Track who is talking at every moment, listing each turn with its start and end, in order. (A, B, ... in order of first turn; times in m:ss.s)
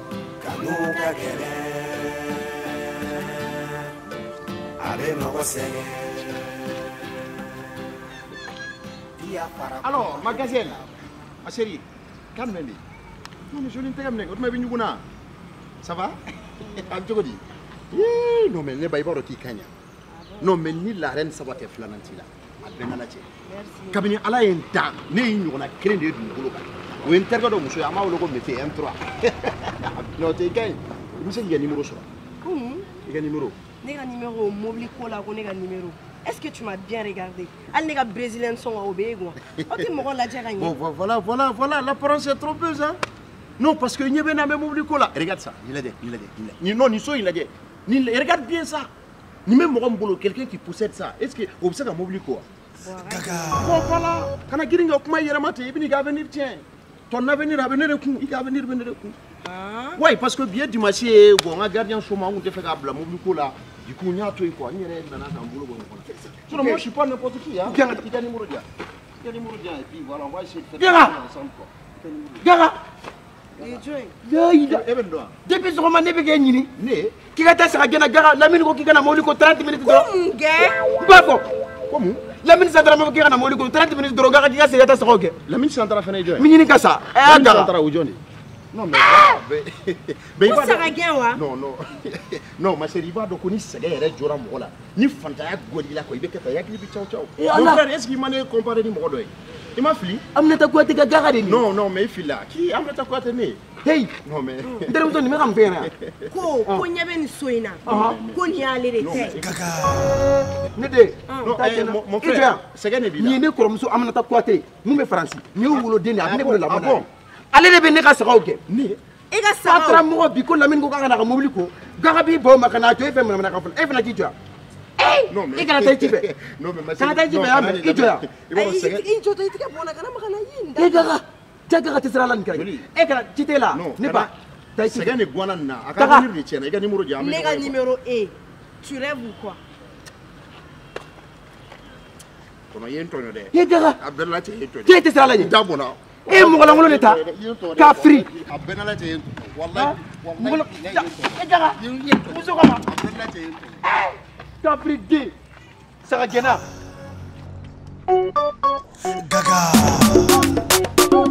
0:00.4-0:02.2 A
0:00.5-0:01.2 B
0:04.8-0:06.2 A
0:05.0-0:05.6 B
0:09.2-0:10.5 B
0:09.8-0:10.8 C
0:11.4-0:11.8 C
0:12.3-0:12.8 C
0:13.5-0:15.0 C
0:15.8-0:19.7 C
0:20.4-0:23.2 C
0:23.4-0:24.0 D
0:23.9-0:32.1 C
0:32.4-0:32.9 D
0:33.0-0:33.6 C
0:33.8-0:40.7 D
0:39.5-0:39.9 C
0:40.6-0:43.0 C
0:43.6-0:48.9 C
0:49.4-0:52.4 C
0:52.8-0:53.8 D
0:53.6-0:59.2 C
0:59.4-1:00.0 D
1:00.0-1:08.6 C
1:06.5-1:06.8 B
1:07.6-1:08.0 B
1:09.2-1:12.5 C
1:10.8-1:11.2 B
1:12.4-1:12.8 B
1:13.6-1:13.8 C
1:13.6-1:14.2 D
1:14.2-1:14.8 B
1:14.6-1:15.4 C
1:15.4-1:16.7 B
1:16.7-1:17.2 C
1:17.3-1:20.1 B
1:19.8-1:21.0 D
1:21.0-1:21.5 B
1:21.9-1:22.3 C
1:22.4-1:25.4 B
1:25.4-1:26.5 C
1:26.4-1:27.7 B
1:27.2-1:28.2 C
1:28.7-1:40.2 C
1:30.4-1:31.4 D
1:37.4-1:37.8 B
1:40.3-1:41.6 B
1:41.4-1:43.6 C
1:43.8-1:44.1 B
1:44.2-1:46.4 C
1:44.8-1:45.9 B
1:46.3-1:49.4 D
1:47.8-1:48.2 B
1:47.8-1:50.6 C
1:50.7-1:52.6 B
1:51.3-1:51.6 D
1:51.4-1:53.4 C
1:53.2-1:58.6 B
1:55.7-1:57.1 C
1:58.7-1:59.0 C
1:59.3-2:00.0 D
1:59.6-2:04.3 B
2:05.0-2:06.2 B
2:05.3-2:09.1 C
2:07.0-2:08.2 B
2:08.5-2:11.2 D
2:10.8-2:15.2 B
2:12.5-2:12.9 C
2:13.7-2:14.3 C
2:14.8-2:17.7 C
2:16.0-2:16.3 B
2:17.2-2:19.6 D
2:22.7-2:33.9 C
2:23.5-2:24.0 B
2:24.8-2:25.5 B
2:26.3-2:27.2 B
2:27.8-2:28.2 B
2:29.7-2:32.8 B
2:34.6-2:35.3 B
2:36.0-2:36.6 B
2:39.2-2:39.7 B